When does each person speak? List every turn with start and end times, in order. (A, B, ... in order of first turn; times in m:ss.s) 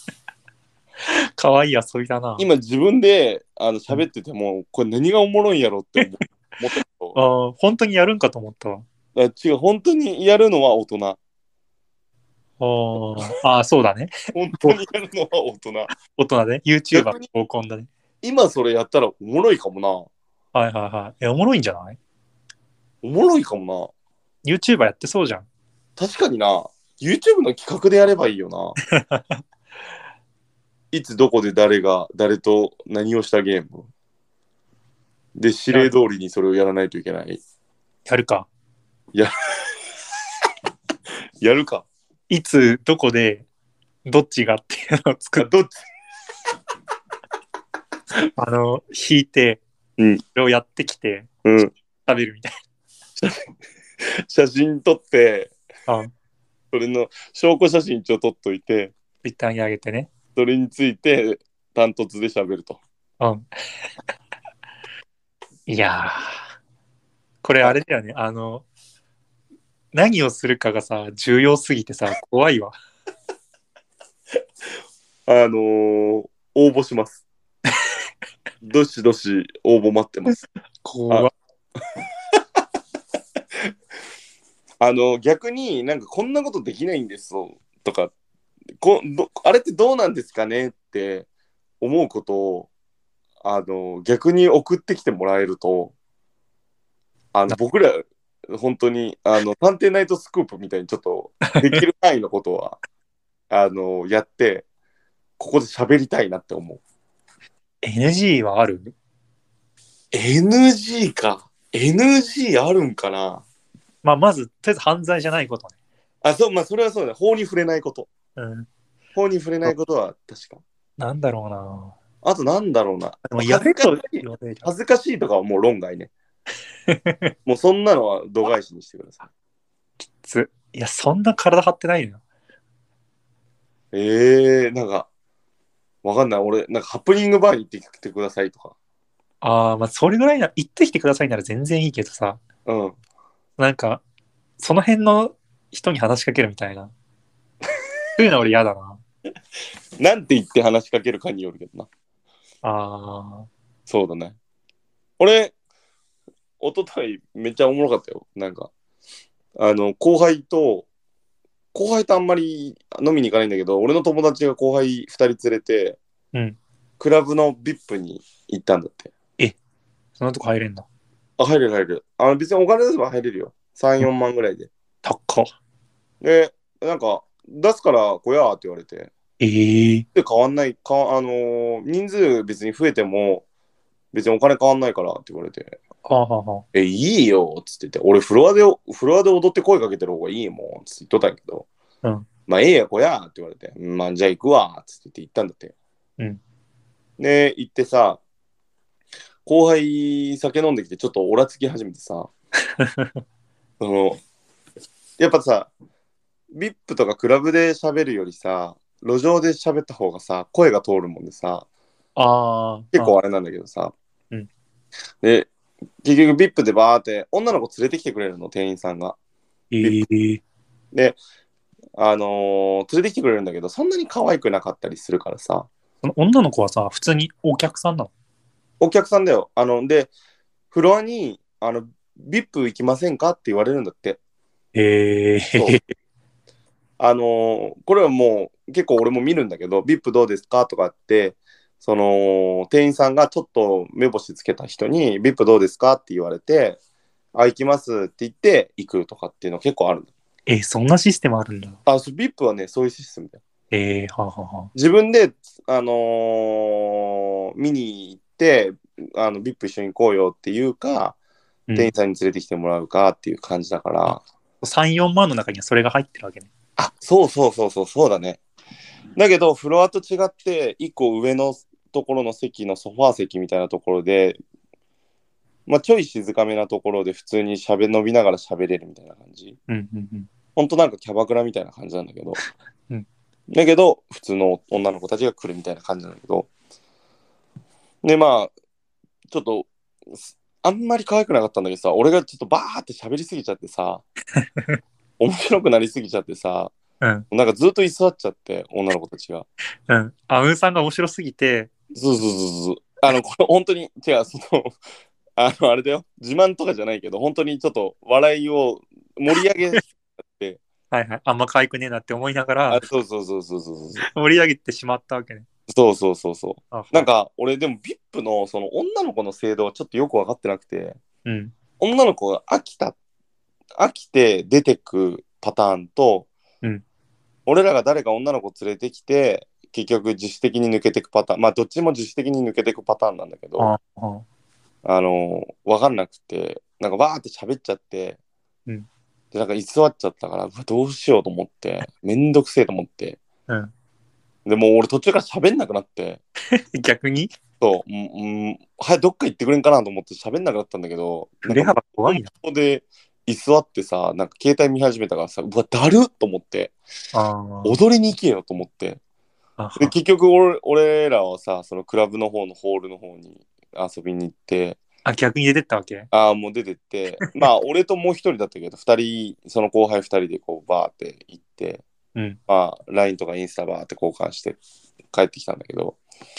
0:01.0-0:02.5 A
0:02.4-0:07.2 B
0:07.2-0:08.9 A
0:09.2-0:11.2 B
0:12.6-0:14.8 A
0:14.3-0:15.9 B
0:16.0-0:17.9 A
0:16.9-0:17.3 B
0:18.2-0:20.1 B
0:20.5-0:22.0 A
0:23.0-0:23.9 B
0:24.4-0:25.4 A
0:26.0-0:28.8 B
0:28.9-0:29.4 A
0:30.9-0:33.9 B
0:35.4-0:37.4 B
0:38.1-0:38.5 A
0:41.4-0:41.9 B
0:42.3-0:43.5 A
0:44.0-0:45.5 A
0:45.4-0:45.7 B
0:48.2-0:49.6 A
0:50.3-0:51.3 A
0:51.4-0:51.7 B
0:52.1-0:52.5 A
0:53.2-0:53.4 B
0:54.1-0:55.5 B
0:56.7-0:58.9 B
0:59.2-1:00.1 A
1:00.4-1:02.8 B
1:03.2-1:03.5 A
1:05.7-1:06.4 A
1:07.4-1:08.6 A
1:09.9-1:12.7 A
1:15.3-1:17.2 B
1:18.6-1:20.4 B
1:20.8-1:21.3 A
1:24.8-1:28.1 B
1:28.8-1:31.3 B
1:31.8-1:32.7 B
1:33.4-1:35.9 B
1:37.3-1:42.8 B
1:41.5-1:41.8 A
1:43.5-1:44.6 B
1:45.4-1:46.8 B
1:47.8-1:48.9 A
1:50.1-1:53.4 B
1:54.0-1:55.7 A
1:56.2-1:58.1 B
1:58.4-1:58.7 A
1:59.2-2:00.6 B
2:01.0-2:01.9 A
2:02.2-2:06.1 B
2:03.2-2:04.7 A
2:06.9-2:07.3 A
2:07.4-2:09.3 B
2:10.1-2:12.2 A
2:13.9-2:15.1 B
2:16.0-2:18.7 B
2:19.4-2:22.4 A
2:22.7-2:23.0 B
2:23.6-2:24.0 A
2:24.6-2:26.9 A
2:28.2-2:29.0 A
2:30.0-2:31.9 B
2:32.6-2:33.5 A
2:33.9-2:34.4 B
2:35.2-2:35.5 B
2:36.6-2:38.7 B
2:39.6-2:40.9 B
2:41.7-2:46.0 B
2:47.0-2:49.1 B
2:50.2-2:50.9 A
2:51.4-2:54.7 B
2:55.0-2:55.5 A
2:56.2-2:59.1 B
2:59.4-3:00.1 A
3:00.1-3:03.4 B
3:04.1-3:05.8 B
3:06.0-3:06.6 A
3:06.7-3:11.7 B
3:12.5-3:15.7 B
3:17.2-3:18.2 B
3:19.4-3:22.3 B
3:22.8-3:23.2 A
3:23.8-3:24.2 B
3:25.2-3:25.7 B
3:26.5-3:31.7 B
3:32.2-3:33.2 A
3:32.9-3:33.9 B
3:35.2-3:35.5 B
3:36.0-3:39.2 B
3:39.7-3:40.4 A
3:40.9-3:41.2 B
3:42.0-3:45.7 B
3:46.0-3:48.1 A
3:48.8-3:50.1 B
3:50.7-3:54.2 B
3:54.8-3:55.8 A
3:57.0-4:06.8 B
4:07.4-4:10.1 B
4:10.5-4:11.8 A
4:11.9-4:13.4 B
4:13.7-4:14.7 A
4:14.8-4:21.2 B
4:21.8-4:24.2 B
4:24.1-4:26.5 A
4:26.8-4:28.4 B
4:29.2-4:34.4 B
4:35.7-4:39.6 B
4:39.7-4:40.3 A
4:40.6-4:42.4 B
4:43.5-4:46.5 B
4:48.0-4:48.5 B
4:49.3-4:54.0 B
4:54.4-4:54.8 A
4:55.2-4:56.7 B
4:57.0-4:57.3 A
4:57.3-4:59.5 B
4:59.9-5:01.7 A
5:01.9-5:04.7 B
5:05.4-5:10.6 B
5:10.9-5:12.8 A
5:12.7-5:14.0 B
5:14.0-5:15.5 A
5:15.7-5:21.0 B
5:16.7-5:17.1 A
5:21.2-5:21.5 A
5:21.8-5:23.0 B
5:23.8-5:26.3 B
5:27.5-5:33.7 B
5:33.6-5:34.2 A
5:34.8-5:38.2 B
5:39.3-5:43.2 B
5:44.4-5:46.2 B
5:46.5-5:47.3 A
5:47.6-5:56.7 B
5:51.4-5:52.3 A
5:57.1-5:57.8 A
5:57.6-5:59.0 B
5:59.6-6:00.0 A
5:59.8-6:04.8 B
6:05.0-6:06.1 A
6:06.1-6:11.8 B
6:12.5-6:14.6 B
6:15.1-6:16.0 B